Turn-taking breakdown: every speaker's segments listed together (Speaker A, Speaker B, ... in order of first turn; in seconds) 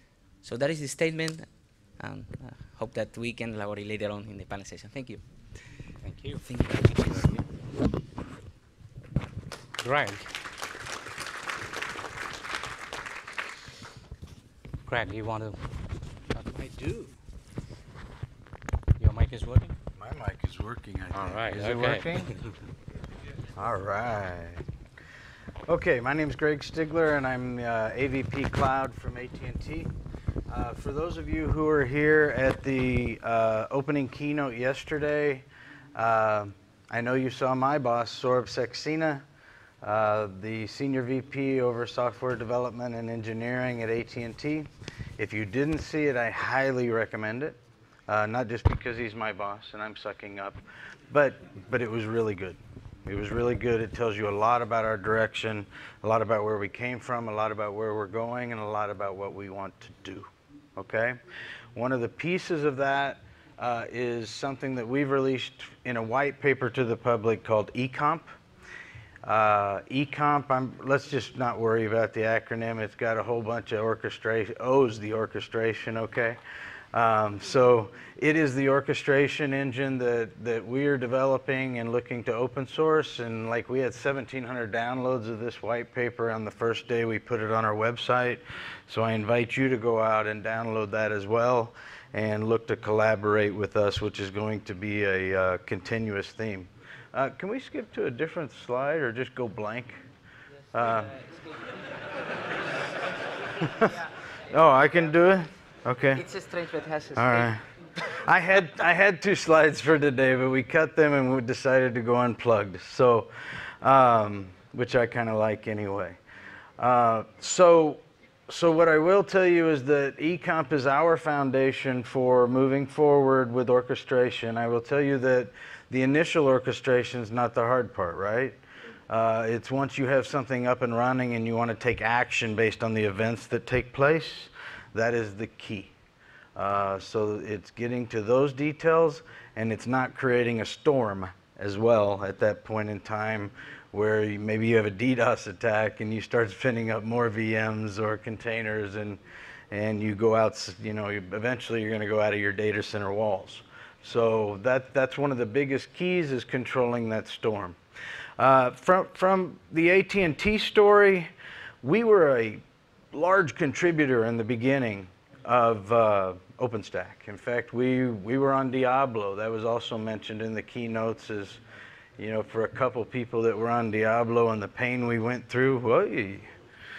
Speaker A: 0.4-1.4, 2.0-5.2, 6.5-7.4, 106.1-107.5
Speaker B: 6.0-6.4, 9.8-10.3, 14.9-15.6, 19.0-19.8, 21.2-22.3
Speaker C: 16.3-17.1, 20.0-22.3, 23.6-24.6, 25.7-29.9, 30.5-39.2, 39.8-61.2, 61.7-68.3, 69.2-76.4, 76.9-100.0, 100.7-101.1, 103.6-103.9, 104.5-106.2, 107.2-116.2, 116.8-128.6, 129.1-135.9, 136.6-149.2, 149.7-157.8, 158.4-171.6, 172.2-176.5